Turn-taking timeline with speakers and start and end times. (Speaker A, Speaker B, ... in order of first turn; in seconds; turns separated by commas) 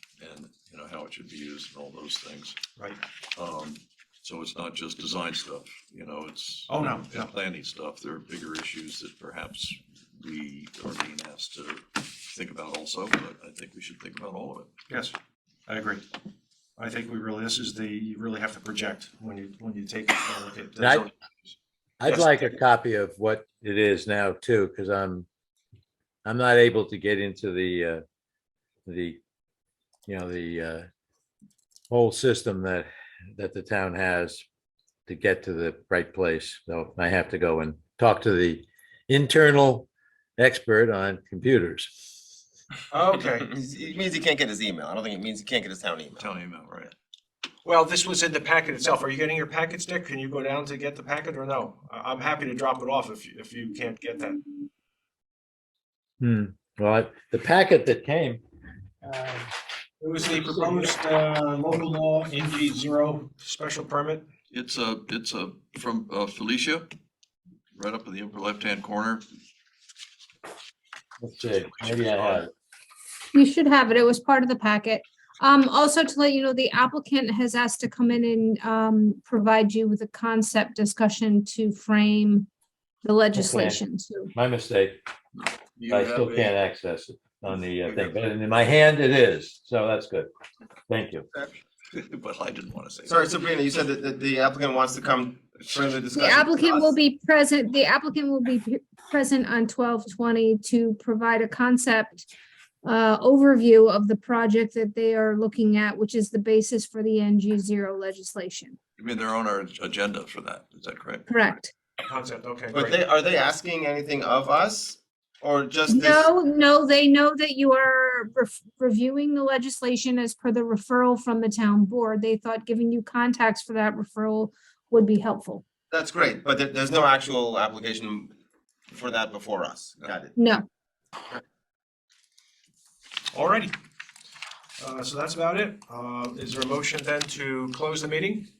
Speaker A: 0.2-2.6, Speaker A: 3.3-14.7, Speaker B: 6.7-7.3, Speaker B: 14.9-15.2, Speaker B: 15.7-16.1, Speaker B: 16.8-21.1, Speaker C: 20.8-21.1, Speaker C: 22.0-25.3, Speaker B: 22.1-22.5, Speaker C: 26.2-28.0, Speaker C: 28.9-29.2, Speaker C: 30.1-30.9, Speaker C: 31.9-34.4, Speaker C: 35.1-41.9, Speaker B: 42.9-43.5, Speaker D: 43.3-46.2, Speaker A: 46.2-46.9, Speaker B: 47.6-54.4, Speaker C: 56.2-58.4, Speaker B: 59.1-59.4, Speaker B: 60.0-64.3, Speaker A: 64.5-66.9, Speaker A: 67.7-69.2, Speaker C: 71.2-72.5, Speaker A: 71.5-72.5, Speaker E: 73.3-82.5, Speaker E: 83.0-84.3, Speaker C: 83.3-85.0, Speaker A: 85.4-86.5, Speaker C: 85.9-90.3, Speaker A: 87.8-88.2, Speaker C: 90.9-91.3, Speaker A: 91.9-93.3, Speaker D: 93.0-96.9, Speaker E: 96.1-102.3, Speaker E: 102.8-108.8, Speaker A: 109.0-111.3, Speaker E: 111.3-111.7, Speaker B: 112.0-113.0, Speaker D: 112.7-116.3, Speaker E: 115.9-125.6, Speaker D: 125.9-128.3, Speaker D: 128.9-130.3, Speaker E: 130.3-130.6, Speaker B: 133.3-133.7, Speaker B: 134.8-138.5